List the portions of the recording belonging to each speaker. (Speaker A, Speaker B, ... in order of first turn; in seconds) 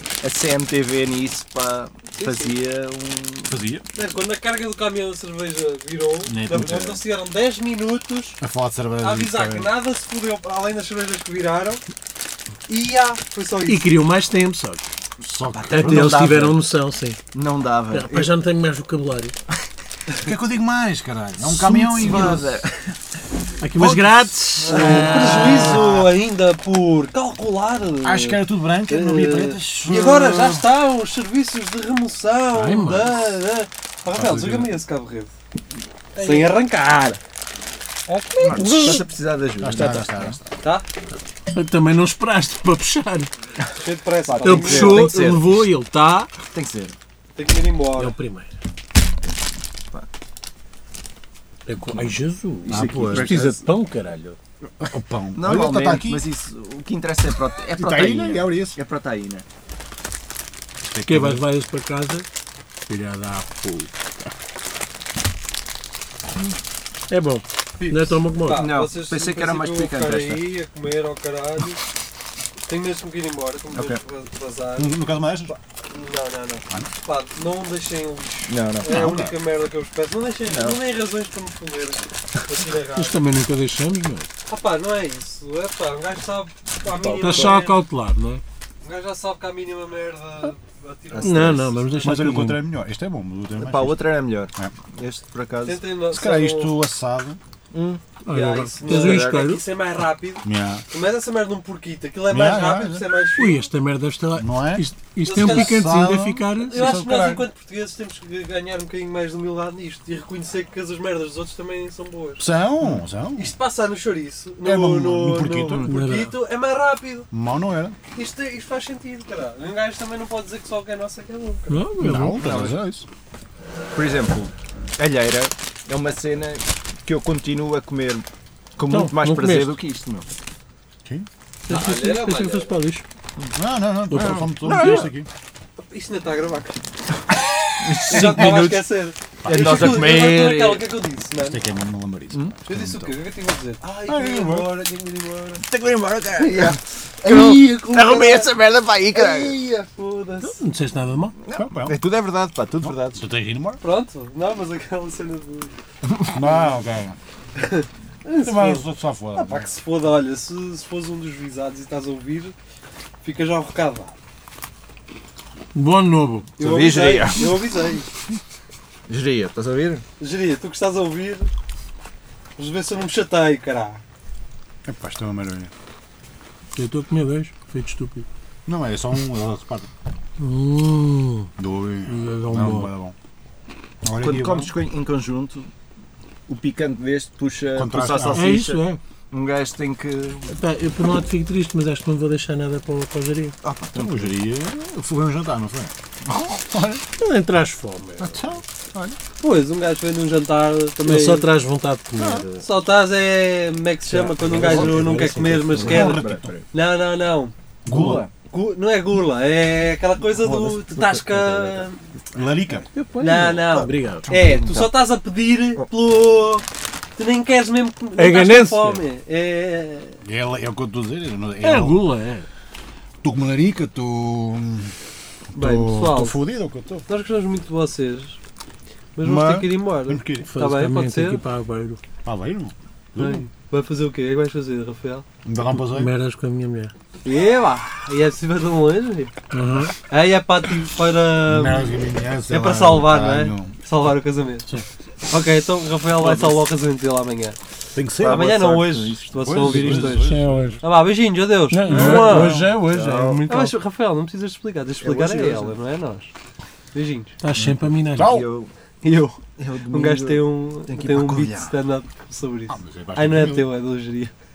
Speaker A: 0.2-3.6, 16.0-16.3, 17.3-18.3, 21.4-23.0, 24.7-26.0, 38.4-40.4, 44.2-45.6, 46.5-47.0, 51.9-53.7, 55.4-59.5, 68.5-70.5, 73.7-74.0, 78.5-78.9, 80.5-80.8, 87.0-87.6, 91.1-91.7, 93.6-95.8, 97.7-98.0, 98.8-99.6, 122.2-122.8, 123.9-128.3, 128.8-130.3, 134.6-135.1, 137.8-138.8, 139.4-140.9, 145.6-149.6, 151.4-153.2, 166.6-167.6, 169.1-170.0, 184.2-185.7, 186.5-190.6, 193.6-194.3, 204.5-205.1, 205.7-206.7, 207.9-208.3, 210.2-211.8, 214.3-215.1, 246.2-246.7, 248.2-249.7, 251.9-253.4, 255.0-255.8, 258.2-261.8
Speaker B: 2.1-2.5, 4.0-8.4, 9.0-11.8, 12.7-13.9, 24.7-35.3, 36.2-37.2, 38.1-39.0, 43.8-45.1, 47.4-48.2, 67.8-71.8, 72.7-83.4, 84.5-87.8, 88.8-92.4, 95.6-96.8, 98.3-103.7, 105.2-105.8, 106.6-112.4, 113.4-117.3, 118.1-121.8, 131.7-132.8, 135.9-136.8, 138.1-141.7, 142.6-145.6, 146.4-148.5, 149.1-150.6, 153.8-155.7, 157.6-162.6, 163.2-164.2, 166.6-168.1, 170.2-171.5, 172.6-174.0, 199.4-201.5, 202.6-207.6, 208.5-212.1, 213.2-216.7, 217.2-220.2, 225.5-226.4, 227.1-228.4, 229.2-231.4, 233.2-235.2, 237.2-239.3, 240.1-242.0, 242.5-247.6, 248.3-252.6, 253.4-256.3, 256.9-257.3, 259.9-264.3
Speaker C: 3.5-3.9, 6.3-7.0, 8.4-9.8, 15.2-16.6, 20.2-22.6, 23.7-26.0, 28.0-30.7, 34.1-34.7, 39.6-40.6, 52.7-53.5, 54.8-56.3, 57.7-58.8, 60.9-61.5, 74.8-75.5, 78.8-79.4, 92.0-94.8, 96.1-97.4, 100.4-100.8, 102.3-103.1, 104.4-107.5, 112.4-113.5, 114.6-115.9, 117.3-118.0, 122.0-123.1, 133.5-135.3, 138.1-138.7, 139.4-140.4, 141.4-143.2, 144.1-144.8, 151.5-152.0, 152.8-153.8, 156.3-157.2, 158.4-159.7, 174.8-175.7, 178.7-179.9, 181.6-183.2, 184.0-184.7, 187.7-188.6, 193.9-197.1, 198.2-198.6, 202.2-202.5, 205.7-206.5, 207.9-208.3, 212.3-212.9, 220.2-222.2, 223.2-224.9, 225.5-227.1, 229.2-230.5, 232.2-233.4, 235.4-236.1, 241.5-243.8, 247.9-248.6, 249.4-250.8, 251.9-252.9, 257.6-258.5, 262.7-263.7
Speaker D: 13.7-14.9, 15.7-17.2, 17.9-19.4, 23.6-25.9, 32.5-33.2, 36.1-36.5, 38.1-39.0, 41.5-43.3, 44.4-46.3, 48.0-48.5, 51.7-54.4, 61.1-62.3, 62.9-64.3, 67.1-68.7, 82.9-84.3, 87.1-88.4, 91.2-92.6, 98.2-99.6, 103.4-107.0, 115.7-116.3, 121.7-122.4, 128.9-129.8, 131.7-133.1, 134.1-135.1, 150.4-151.3, 165.7-166.5, 176.7-178.3, 180.4-181.5, 182.1-182.9, 188.3-189.0, 190.5-193.6, 197.2-198.5, 201.0-202.7, 204.1-206.0, 212.9-214.3, 218.2-219.0, 221.6-222.5, 230.4-232.0, 235.8-236.9, 239.5-239.9, 249.6-250.8, 251.7-253.8, 257.4-258.4